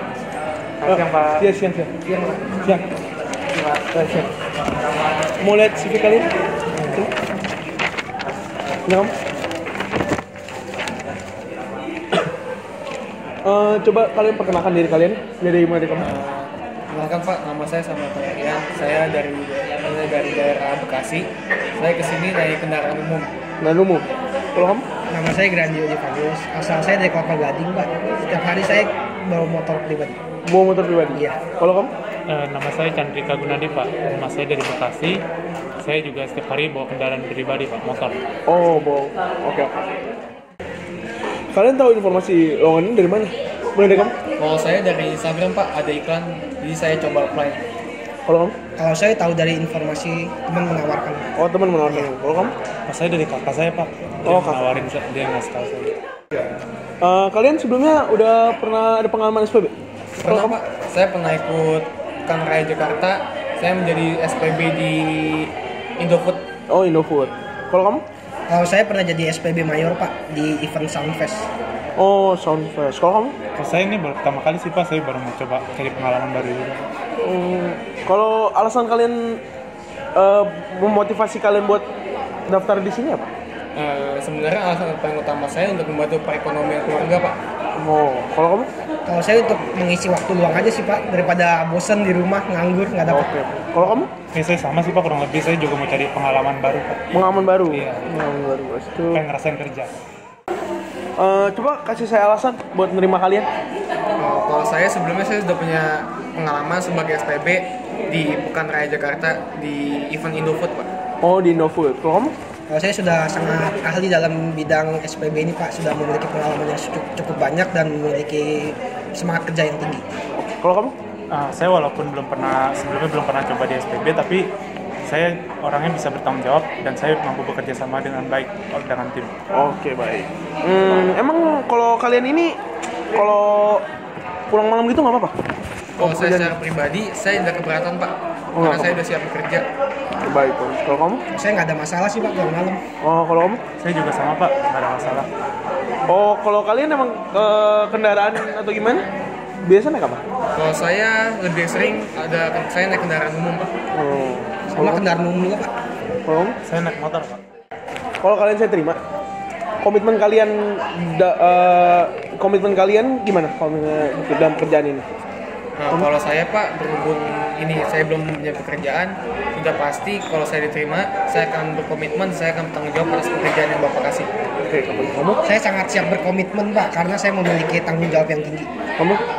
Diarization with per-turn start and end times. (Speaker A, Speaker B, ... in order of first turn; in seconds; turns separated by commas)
Speaker A: 0.8-1.5, Speaker B: 0.8-1.9, Speaker C: 2.1-2.5, Speaker B: 2.6-2.8, Speaker B: 3.5-4.3, Speaker B: 5.4-7.1, Speaker B: 8.8-9.1, Speaker B: 13.4-16.1, Speaker D: 16.0-23.3, Speaker B: 23.6-24.9, Speaker C: 25.1-30.2, Speaker B: 30.4-31.9, Speaker C: 31.1-31.4, Speaker A: 32.3-35.2, Speaker A: 35.8-38.2, Speaker B: 38.5-39.9, Speaker B: 41.5-44.1, Speaker D: 44.4-47.6, Speaker B: 48.2-48.6, Speaker C: 48.8-51.3, Speaker B: 51.4-52.5, Speaker C: 51.9-52.1, Speaker A: 52.9-55.9, Speaker B: 54.2-54.8, Speaker B: 57.0-60.6, Speaker D: 60.2-66.5, Speaker B: 66.7-68.0, Speaker C: 68.5-71.5, Speaker B: 72.0-73.4, Speaker A: 73.5-76.9, Speaker B: 77.2-79.4, Speaker B: 80.1-81.9, Speaker B: 82.5-83.3, Speaker D: 83.7-87.4, Speaker B: 87.8-88.7, Speaker C: 89.0-93.3, Speaker B: 93.1-94.1, Speaker A: 94.3-98.0, Speaker B: 97.1-99.2, Speaker A: 99.1-99.9, Speaker B: 101.2-103.5, Speaker D: 104.2-110.9, Speaker B: 111.2-112.3, Speaker C: 112.7-120.0, Speaker B: 120.3-120.9, Speaker A: 121.3-124.5, Speaker A: 125.0-129.4, Speaker B: 129.5-132.6, Speaker B: 133.1-133.8, Speaker B: 134.5-135.3, Speaker B: 136.0-136.6, Speaker D: 136.0-139.7, Speaker B: 138.5-139.0, Speaker B: 140.2-141.2, Speaker C: 141.3-142.8, Speaker B: 143.0-143.6, Speaker A: 143.8-145.3, Speaker B: 146.1-149.0, Speaker B: 149.6-150.2, Speaker D: 150.5-153.7, Speaker B: 153.9-155.0, Speaker C: 154.7-155.7, Speaker B: 156.2-156.6, Speaker A: 156.6-157.4, Speaker B: 158.2-159.0, Speaker B: 159.8-165.1, Speaker D: 165.8-174.3, Speaker B: 174.6-175.4, Speaker C: 175.4-178.7, Speaker B: 179.0-179.2